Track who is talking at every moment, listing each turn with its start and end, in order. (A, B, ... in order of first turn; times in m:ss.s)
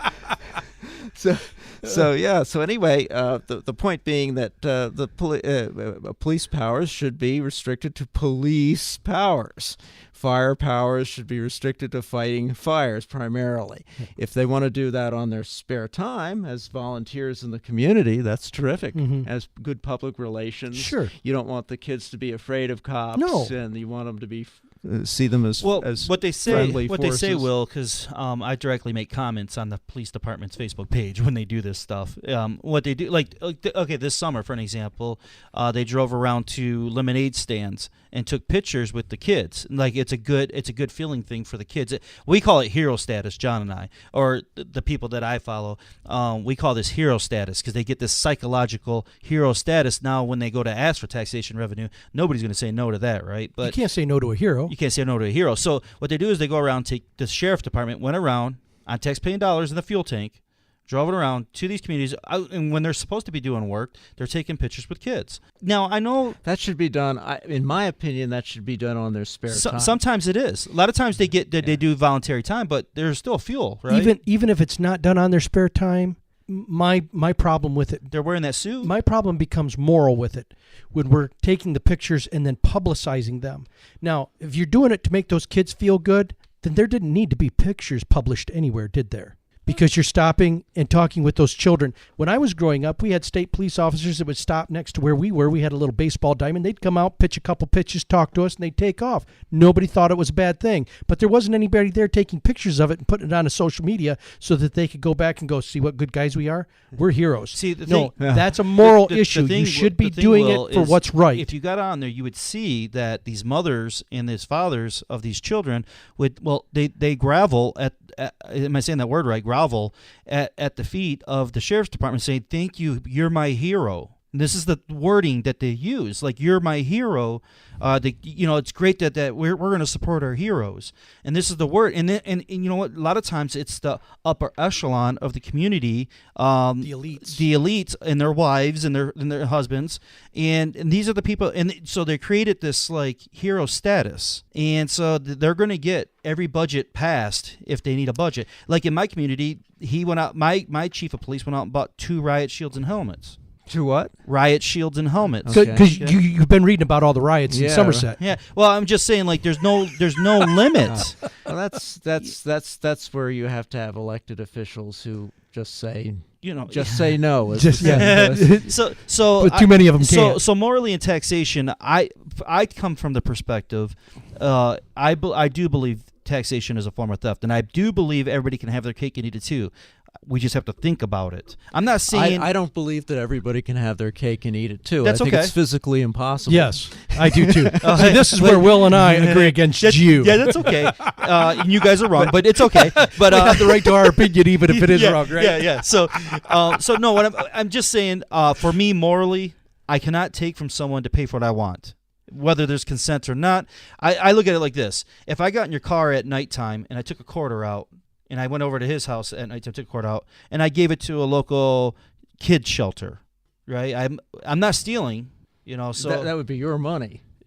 0:00.5-0:27.5 A
0:18.9-0:19.3 B
0:20.7-0:21.1 B
0:23.1-0:23.5 B
0:25.6-0:53.8 C
0:53.6-0:54.7 B
0:54.7-1:06.4 C
1:06.4-1:10.0 A
1:09.5-1:14.2 C
1:13.9-1:18.1 B
1:18.1-1:18.9 C
1:18.8-1:51.5 B
1:47.5-2:33.4 C
1:48.2-1:48.4 A
2:16.8-2:17.4 B
2:33.7-2:34.1 A
2:34.2-2:36.2 C
2:35.4-2:35.9 A
2:35.5-2:38.2 B
2:37.5-2:38.1 A
2:38.2-2:41.2 C
2:40.9-2:48.6 A
2:46.4-2:59.7 C
2:47.5-2:50.4 B
3:00.2-3:02.5 C
3:02.1-3:08.2 A
3:05.0-3:05.5 C
3:06.4-3:11.2 B
3:07.3-3:36.3 C
3:12.1-3:15.8 B
3:36.0-3:37.2 A